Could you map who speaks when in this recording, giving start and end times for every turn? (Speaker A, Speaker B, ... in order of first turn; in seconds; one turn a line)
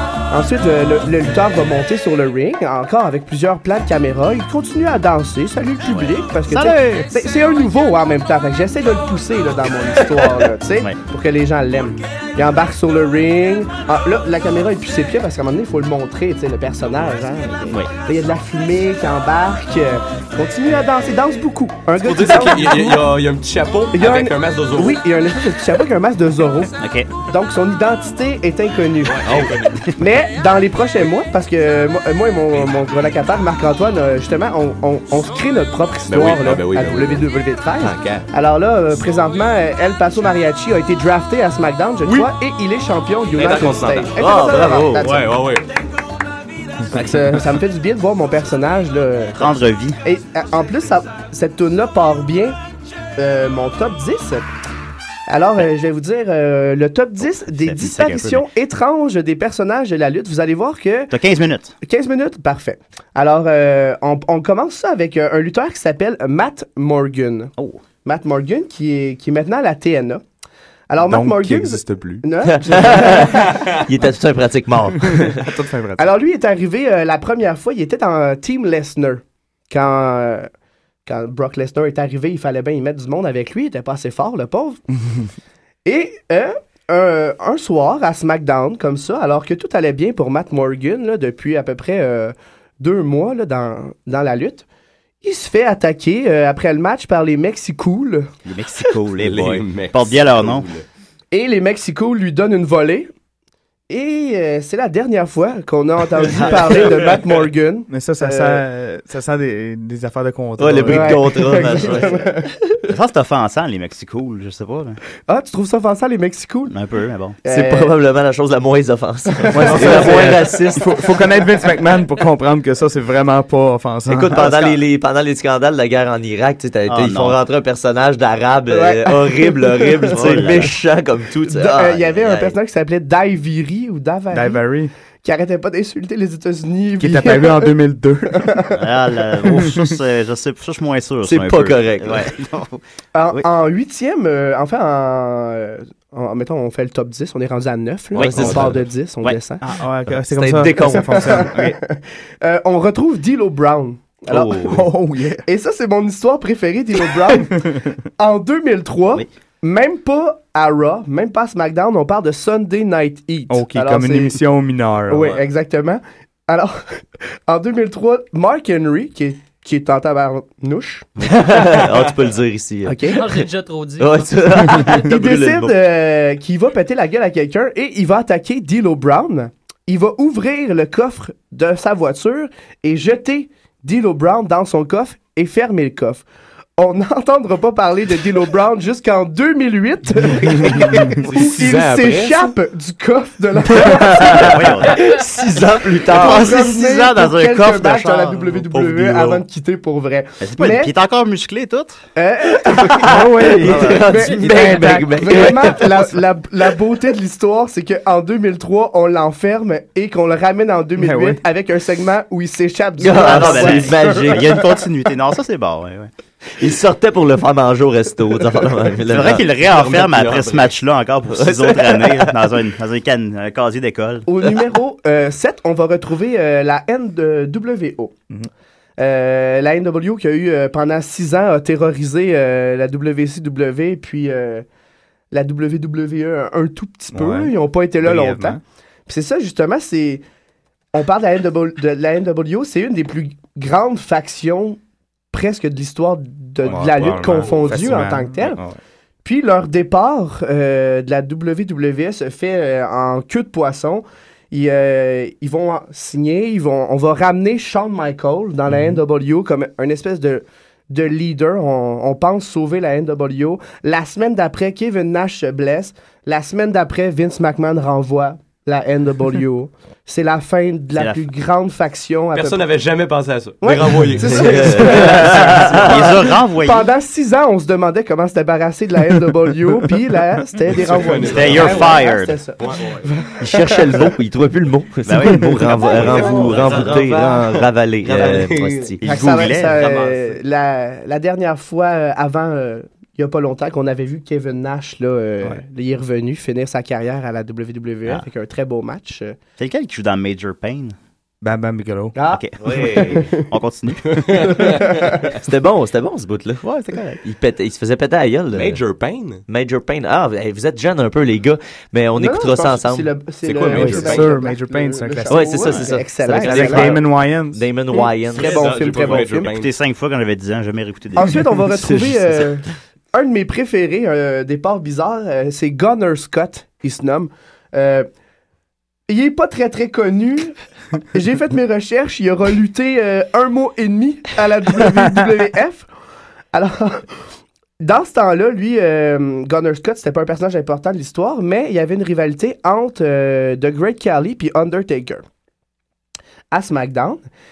Speaker A: 0.3-23.1
Speaker B: 5.9-7.1
Speaker C: 22.0-25.0
Speaker A: 23.9-26.7
Speaker B: 26.8-27.1
Speaker A: 27.2-29.4
Speaker C: 29.1-29.9
Speaker A: 30.0-45.2
Speaker C: 36.1-37.3
Speaker C: 37.8-38.3
Speaker C: 43.4-45.7
Speaker D: 44.2-45.1
Speaker A: 46.9-49.5
Speaker B: 49.4-50.0
Speaker A: 50.0-52.6
Speaker A: 53.2-54.5
Speaker A: 55.3-61.1
Speaker B: 57.5-58.5
Speaker B: 61.1-61.7
Speaker A: 61.8-67.5
Speaker A: 68.0-70.2
Speaker A: 70.9-73.6
Speaker E: 71.0-72.3
Speaker D: 72.5-75.4
Speaker E: 75.1-76.1
Speaker A: 76.0-80.5
Speaker A: 81.1-84.8
Speaker A: 85.8-94.7
Speaker A: 95.2-98.3
Speaker B: 98.5-100.7
Speaker C: 99.2-100.8
Speaker A: 101.3-103.1
Speaker A: 103.9-108.6
Speaker B: 106.3-106.8
Speaker C: 106.9-107.2
Speaker E: 107.9-111.5
Speaker D: 110.6-112.0
Speaker A: 110.9-112.8
Speaker B: 111.7-112.3
Speaker B: 112.8-115.0
Speaker A: 115.3-116.7
Speaker B: 116.7-117.4
Speaker A: 117.4-117.9
Speaker D: 117.5-120.9
Speaker A: 119.5-120.2
Speaker E: 119.5-124.5
Speaker D: 124.1-132.6
Speaker B: 126.9-127.4
Speaker A: 128.7-130.7
Speaker B: 130.1-130.8
Speaker A: 131.5-134.6
Speaker E: 134.3-134.9
Speaker A: 135.2-137.7
Speaker E: 137.0-138.6
Speaker A: 138.3-138.7
Speaker B: 138.7-142.8
Speaker E: 139.7-139.9
Speaker D: 141.2-142.3
Speaker A: 143.1-149.6
Speaker C: 148.2-148.8
Speaker D: 148.2-148.7
Speaker B: 148.2-148.6
Speaker B: 149.2-149.7
Speaker E: 149.6-151.8
Speaker D: 150.3-151.4
Speaker A: 150.8-154.8
Speaker B: 154.3-154.9
Speaker E: 154.6-155.4
Speaker A: 155.4-164.4
Speaker E: 157.6-157.9
Speaker E: 163.5-165.4
Speaker A: 165.1-171.1
Speaker D: 171.2-173.2
Speaker A: 172.9-173.2
Speaker F: 173.1-175.1
Speaker D: 174.0-175.8
Speaker A: 174.9-186.2
Speaker A: 186.8-195.1
Speaker C: 191.1-192.5
Speaker E: 193.8-194.3
Speaker B: 194.2-195.2
Speaker D: 194.9-196.7
Speaker A: 196.1-200.9
Speaker B: 196.1-198.6
Speaker C: 198.7-199.4
Speaker B: 200.4-202.0
Speaker A: 202.2-214.4
Speaker D: 202.9-206.1
Speaker E: 203.0-205.8
Speaker B: 203.7-204.0
Speaker E: 211.0-211.4
Speaker D: 213.0-214.6
Speaker B: 213.1-216.1
Speaker D: 216.6-219.4
Speaker B: 219.1-224.3
Speaker C: 219.5-220.7
Speaker D: 221.3-222.5
Speaker A: 224.3-228.1
Speaker A: 229.0-234.7
Speaker A: 235.3-240.2
Speaker E: 237.1-238.6
Speaker A: 240.9-244.8
Speaker A: 245.3-248.6
Speaker E: 246.7-248.8
Speaker C: 247.2-248.0
Speaker A: 249.2-272.7
Speaker E: 258.7-259.0
Speaker B: 271.0-271.2
Speaker C: 272.3-275.7
Speaker A: 273.6-283.9
Speaker D: 274.2-276.1
Speaker B: 275.2-276.9
Speaker C: 280.7-283.1
Speaker B: 281.3-282.4
Speaker D: 283.4-289.0
Speaker B: 285.1-286.9
Speaker C: 285.8-290.4
Speaker A: 286.2-286.5
Speaker B: 289.0-289.9
Speaker A: 289.0-299.4
Speaker B: 299.6-301.0
Speaker E: 301.4-302.1
Speaker A: 302.2-303.4
Speaker B: 302.3-304.6
Speaker C: 302.6-303.3
Speaker C: 304.1-305.2
Speaker A: 304.4-305.1
Speaker D: 305.4-306.6
Speaker B: 306.6-307.2
Speaker D: 307.2-308.8
Speaker C: 308.5-309.4
Speaker D: 309.5-313.1
Speaker A: 312.2-316.9
Speaker C: 313.4-314.3
Speaker E: 313.7-315.7
Speaker D: 315.3-318.6
Speaker E: 316.4-317.6
Speaker A: 317.9-319.6
Speaker C: 318.3-319.7
Speaker B: 319.4-321.4
Speaker A: 321.2-328.1
Speaker D: 321.8-322.4
Speaker A: 329.1-330.5
Speaker A: 331.1-335.9
Speaker A: 336.5-337.2
Speaker A: 337.8-345.2
Speaker A: 346.5-347.2